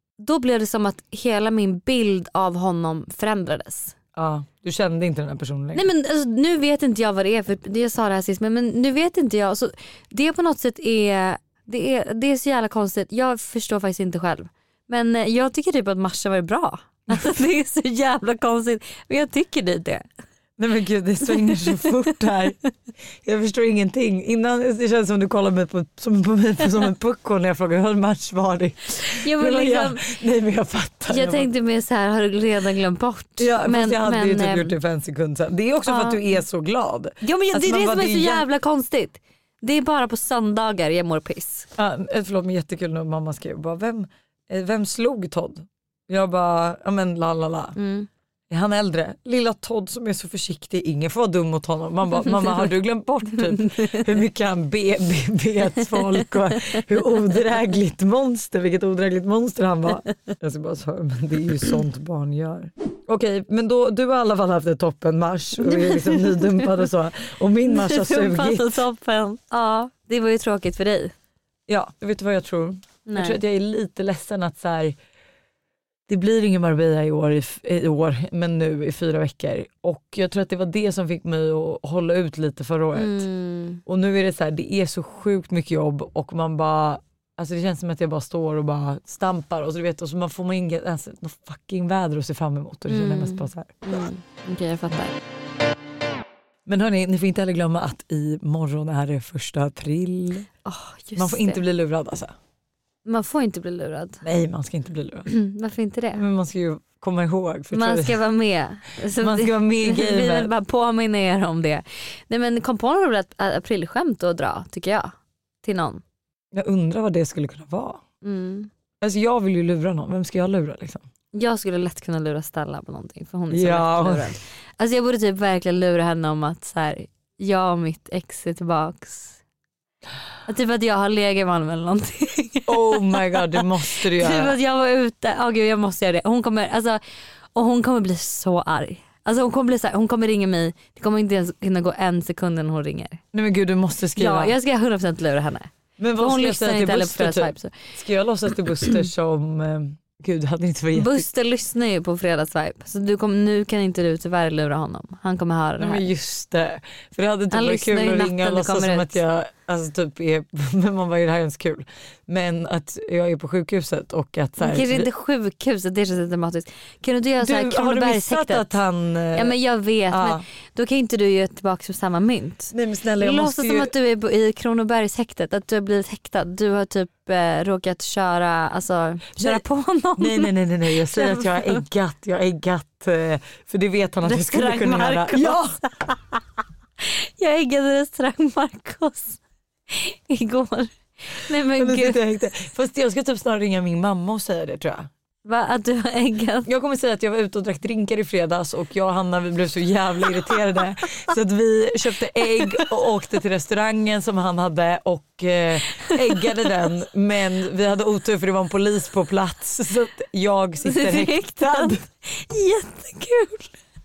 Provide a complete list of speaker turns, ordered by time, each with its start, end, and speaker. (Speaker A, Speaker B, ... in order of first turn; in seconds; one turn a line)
Speaker A: 0.2-4.0
Speaker B: 4.2-5.9
Speaker A: 5.7-20.1
Speaker B: 20.6-22.6
Speaker A: 21.5-21.9
Speaker B: 23.2-31.5
Speaker A: 29.0-30.0
Speaker A: 31.1-34.8
Speaker B: 33.4-38.5
Speaker A: 35.9-36.4
Speaker A: 37.2-41.7
Speaker B: 41.8-47.8
Speaker A: 47.8-48.1
Speaker B: 48.5-68.8
Speaker A: 65.7-66.8
Speaker A: 67.7-71.1
Speaker B: 71.7-75.0
Speaker A: 73.1-73.4
Speaker B: 76.1-83.3
Speaker A: 83.0-83.8
Speaker B: 83.9-93.8
Speaker A: 92.9-95.1
Speaker B: 96.7-100.5
Speaker A: 100.6-101.6
Speaker B: 101.2-102.3
Speaker A: 103.0-104.2
Speaker B: 104.2-105.3
Speaker A: 105.3-106.2
Speaker B: 106.1-108.2
Speaker A: 107.7-115.1
Speaker B: 109.2-110.5
Speaker A: 115.6-116.0
Speaker B: 116.5-118.0
Speaker A: 118.2-118.7
Speaker B: 119.0-121.0
Speaker A: 121.3-129.4
Speaker B: 123.5-124.3
Speaker A: 130.5-137.0
Speaker B: 132.7-134.6
Speaker A: 137.6-143.2
Speaker B: 143.3-144.6
Speaker A: 144.2-147.7
Speaker B: 146.0-151.3
Speaker A: 150.9-156.0
Speaker B: 155.8-165.1
Speaker A: 157.5-159.2
Speaker A: 164.6-168.7
Speaker B: 167.4-169.6
Speaker A: 169.3-181.8
Speaker B: 170.1-170.5
Speaker B: 172.7-173.9
Speaker B: 179.4-179.6
Speaker B: 180.2-185.8
Speaker A: 184.2-186.4
Speaker A: 187.0-192.2
Speaker B: 191.8-195.1
Speaker A: 195.4-196.7
Speaker B: 196.7-212.0
Speaker A: 202.6-202.8
Speaker A: 206.0-206.6
Speaker A: 210.8-213.8